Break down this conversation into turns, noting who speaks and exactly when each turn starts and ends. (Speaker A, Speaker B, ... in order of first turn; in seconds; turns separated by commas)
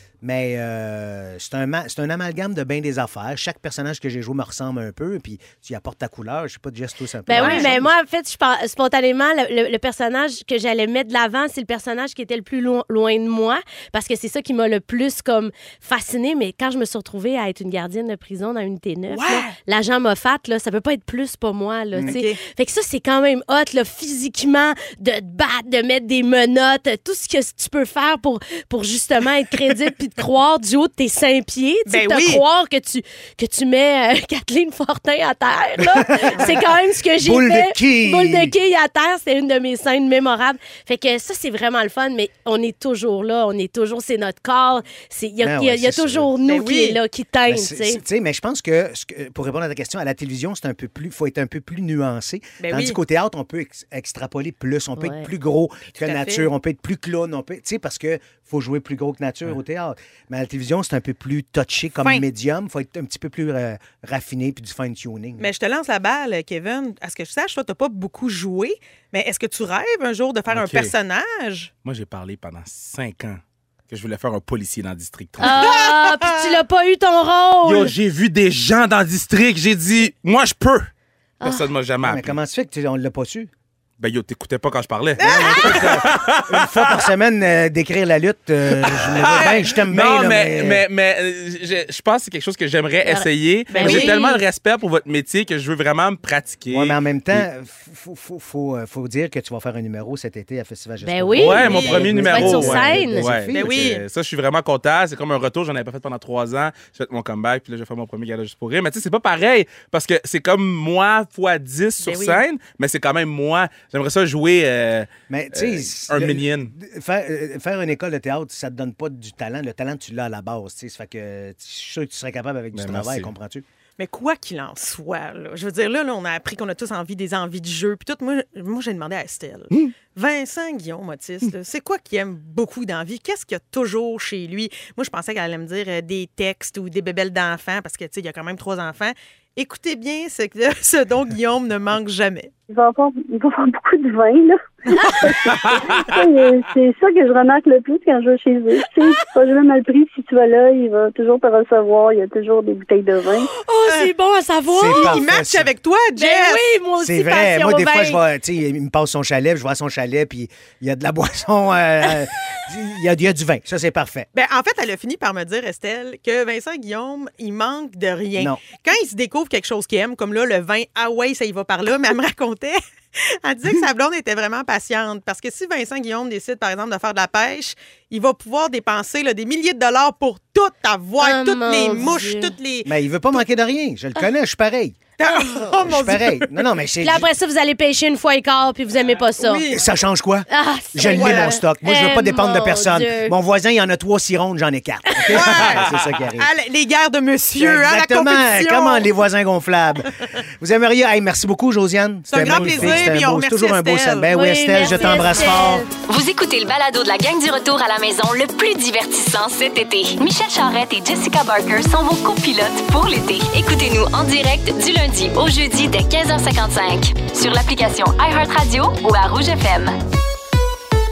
Speaker A: 0.2-7.9, Speaker B: 7.3-48.0, Speaker C: 7.4-7.7, Speaker C: 19.1-19.5, Speaker C: 22.0-22.4, Speaker C: 31.9-32.4, Speaker A: 35.8-36.5, Speaker A: 37.2-38.5, Speaker A: 45.4-46.3, Speaker C: 46.5-47.0, Speaker A: 47.5-65.5, Speaker C: 52.6-53.0, Speaker B: 55.0-55.3, Speaker C: 56.0-56.5, Speaker C: 65.4-71.7, Speaker D: 70.5-70.9, Speaker D: 71.8-75.6, Speaker B: 75.4-77.9, Speaker C: 75.5-76.5, Speaker D: 77.6-80.9, Speaker D: 81.4-82.4, Speaker A: 82.0-83.5, Speaker D: 84.0-87.0, Speaker C: 85.2-86.0, Speaker A: 85.2-90.8, Speaker D: 88.8-97.5, Speaker B: 93.0-94.4, Speaker C: 93.7-94.1, Speaker A: 96.7-103.7, Speaker B: 101.0-103.3, Speaker D: 101.4-116.7, Speaker C: 101.7-102.1, Speaker C: 103.5-104.0, Speaker C: 112.0-112.4, Speaker A: 115.3-123.7, Speaker D: 122.7-123.3, Speaker C: 124.0-142.5, Speaker E: 142.7-153.5, Speaker B: 153.4-155.2, Speaker A: 154.7-155.7, Speaker C: 154.9-156.7, Speaker B: 156.2-158.2, Speaker A: 157.0-164.3, Speaker C: 164.3-183.4, Speaker B: 181.2-182.5, Speaker A: 182.8-185.0, Speaker C: 185.2-186.6, Speaker A: 185.8-187.3, Speaker B: 187.0-189.6, Speaker C: 189.4-189.9, Speaker A: 189.7-196.5, Speaker B: 190.5-193.3, Speaker C: 191.0-191.6, Speaker C: 195.3-195.8, Speaker C: 196.4-199.1, Speaker A: 197.6-205.8, Speaker C: 202.3-205.1, Speaker D: 202.3-203.1, Speaker B: 204.3-205.9, Speaker F: 206.1-219.9